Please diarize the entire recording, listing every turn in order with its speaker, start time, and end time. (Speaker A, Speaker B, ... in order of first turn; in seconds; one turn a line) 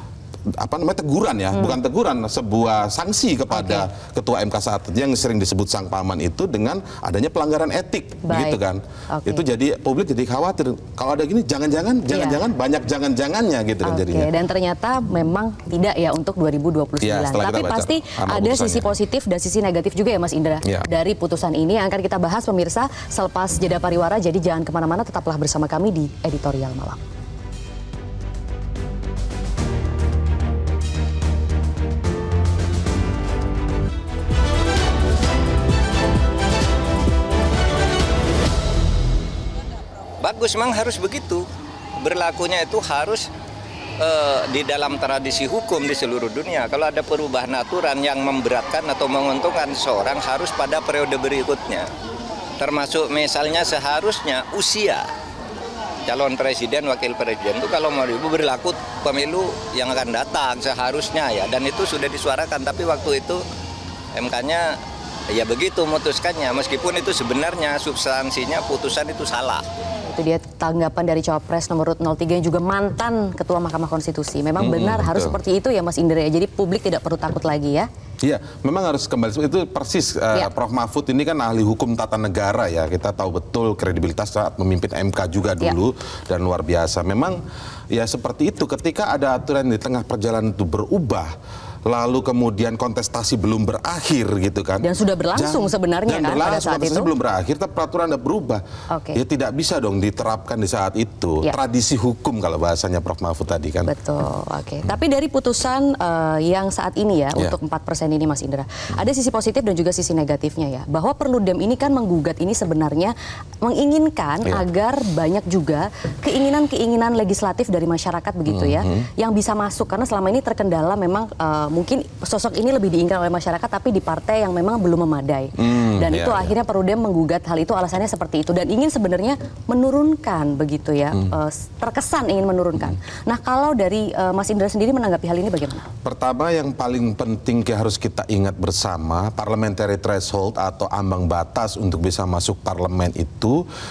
Speaker A: 0.6-14.3
Speaker B: 3.5-3.9
Speaker B: 8.2-8.6
Speaker B: 9.1-9.4
Speaker B: 12.1-12.4
Speaker B: 13.8-27.0
Speaker A: 17.0-18.9
Speaker C: 40.2-41.5
Speaker C: 42.0-43.3
Speaker C: 44.0-51.9
Speaker C: 52.6-55.0
Speaker C: 56.1-63.4
Speaker C: 64.1-64.8
Speaker C: 65.3-69.6
Speaker B: 70.1-77.9
Speaker A: 74.6-75.4
Speaker A: 78.2-87.4
Speaker A: 87.9-91.3
Speaker A: 91.9-98.6
Speaker B: 94.8-97.1
Speaker B: 98.9-99.2
Speaker A: 99.1-103.9
Speaker B: 103.9-135.9
Speaker A: 118.5-119.0
Speaker A: 125.6-126.5
Speaker A: 136.0-143.6